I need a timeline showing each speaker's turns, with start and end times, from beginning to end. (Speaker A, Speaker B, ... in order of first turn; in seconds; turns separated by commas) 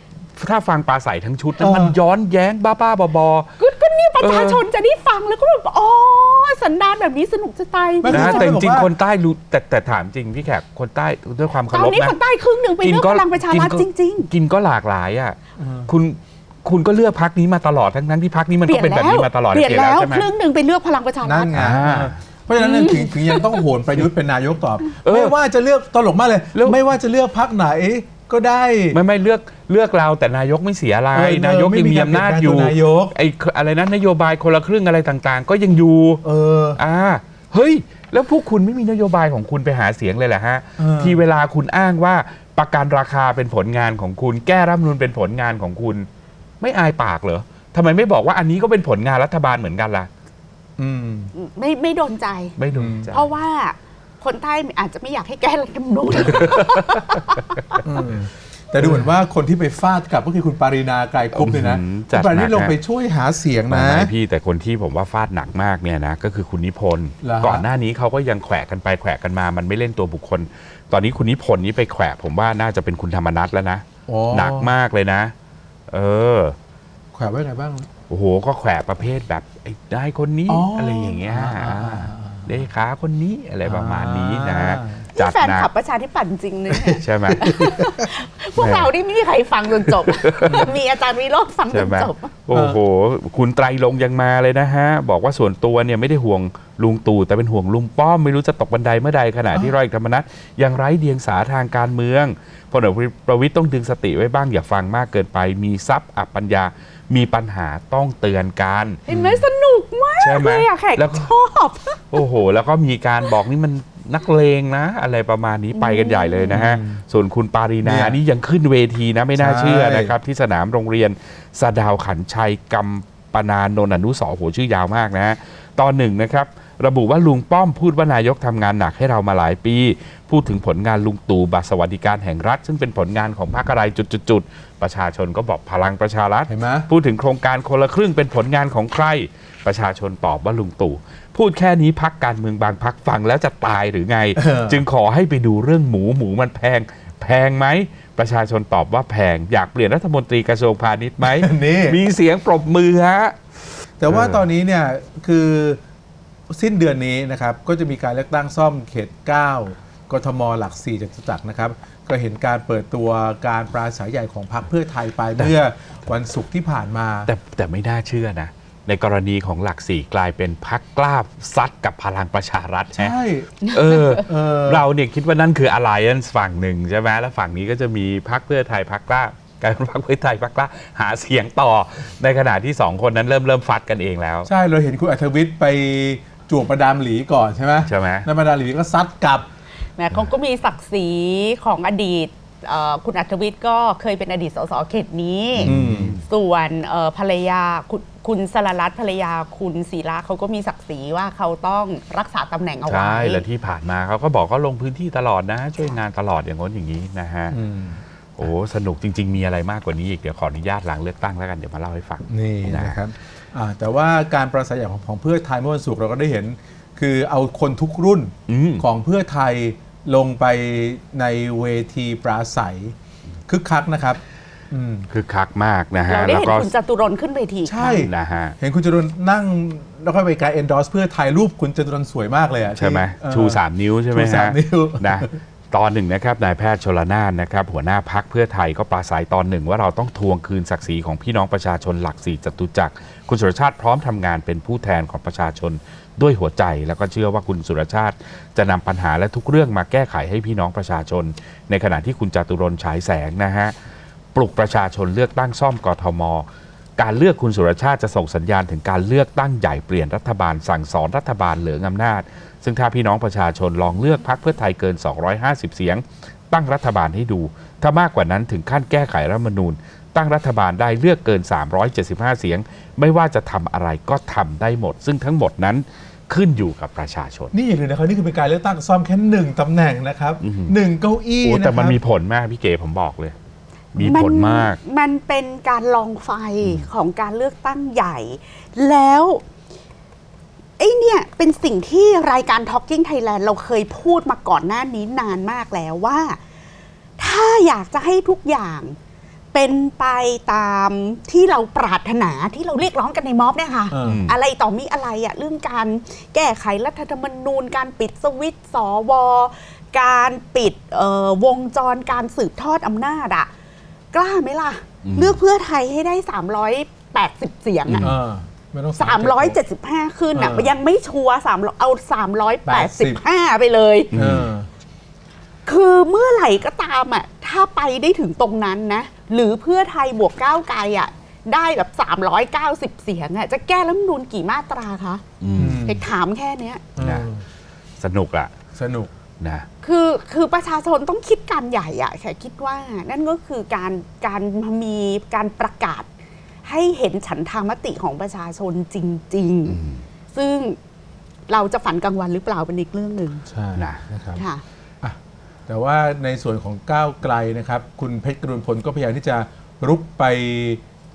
Speaker A: 0.3-3.5, Speaker B: 1.6-1.9, Speaker C: 3.6-8.5, Speaker A: 4.2-4.6, Speaker B: 8.0-8.9, Speaker A: 8.1-12.2, Speaker C: 11.7-14.3, Speaker A: 12.8-20.3, Speaker B: 15.6-15.9, Speaker C: 18.6-21.5, Speaker B: 21.2-29.0, Speaker A: 21.5-22.2, Speaker C: 22.6-23.5, Speaker A: 25.0-25.3, Speaker A: 26.5-26.8, Speaker A: 28.9-46.1, Speaker B: 31.1-33.1, Speaker B: 36.2-36.8, Speaker B: 40.8-41.2, Speaker A: 46.6-50.1, Speaker B: 50.8-51.3, Speaker C: 51.3-52.5, Speaker A: 52.6-53.3, Speaker B: 52.7-53.1, Speaker C: 53.1-57.8, Speaker A: 56.2-57.1, Speaker B: 57.8-64.1, Speaker A: 58.8-59.1, Speaker A: 61.3-62.8, Speaker A: 63.7-75.3, Speaker B: 67.2-67.7, Speaker B: 74.1-74.7, Speaker A: 75.9-76.5, Speaker B: 77.1-77.9, Speaker A: 78.1-85.7, Speaker B: 80.5-82.5, Speaker B: 83.6-85.0, Speaker C: 85.2-92.3, Speaker B: 86.7-87.9, Speaker A: 87.0-87.5, Speaker A: 88.6-88.9, Speaker A: 89.8-90.7, Speaker A: 91.7-109.0, Speaker B: 92.5-92.8, Speaker C: 109.1-112.2, Speaker B: 109.1-109.4, Speaker A: 110.2-111.3, Speaker A: 112.1-153.4, Speaker C: 115.7-116.6, Speaker B: 116.5-117.0, Speaker B: 117.8-118.2, Speaker B: 119.4-120.2, Speaker B: 136.5-136.9, Speaker B: 144.3-144.8, Speaker B: 151.2-152.0, Speaker B: 154.0-155.8, Speaker A: 154.0-154.4, Speaker B: 156.5-167.3, Speaker A: 167.2-173.1, Speaker B: 172.9-173.5, Speaker C: 173.6-174.2, Speaker A: 173.7-184.5, Speaker B: 174.2-174.8, Speaker B: 184.4-189.4, Speaker A: 187.8-188.3, Speaker C: 190.0-195.7, Speaker A: 195.5-196.2, Speaker B: 195.6-196.2, Speaker C: 196.2-203.4, Speaker A: 202.9-207.6, Speaker B: 207.5-208.0, Speaker A: 208.3-213.0, Speaker B: 212.3-222.9, Speaker A: 218.5-218.8, Speaker B: 223.5-225.1, Speaker A: 225.1-226.7, Speaker C: 226.1-228.1, Speaker B: 227.7-233.6, Speaker A: 228.0-228.5, Speaker A: 232.7-253.7, Speaker B: 234.1-235.4, Speaker A: 254.3-256.4, Speaker A: 257.0-277.5, Speaker B: 277.5-282.0, Speaker A: 280.4-280.7, Speaker A: 281.4-283.4, Speaker A: 283.9-284.8, Speaker C: 284.0-289.4, Speaker A: 286.6-286.9, Speaker C: 290.8-296.4, Speaker C: 297.2-299.0, Speaker C: 299.5-313.5, Speaker B: 303.9-304.2, Speaker A: 304.0-304.4, Speaker C: 314.1-318.1, Speaker A: 315.0-315.4, Speaker A: 317.9-318.1, Speaker B: 318.0-319.6, Speaker C: 319.0-324.1, Speaker B: 320.3-320.7, Speaker B: 322.6-323.2, Speaker A: 324.1-324.5, Speaker B: 324.1-324.7, Speaker C: 325.6-335.2, Speaker A: 335.4-335.8, Speaker B: 335.5-336.1, Speaker C: 335.8-336.8, Speaker B: 336.9-337.4, Speaker A: 337.0-337.3, Speaker A: 338.0-338.5, Speaker B: 338.7-339.1, Speaker A: 339.4-339.6, Speaker C: 339.8-346.1, Speaker C: 346.6-349.8, Speaker A: 349.7-350.0, Speaker C: 350.3-350.8, Speaker C: 351.5-353.4, Speaker B: 353.5-354.4, Speaker A: 353.8-354.0, Speaker C: 354.4-354.6, Speaker B: 355.0-360.8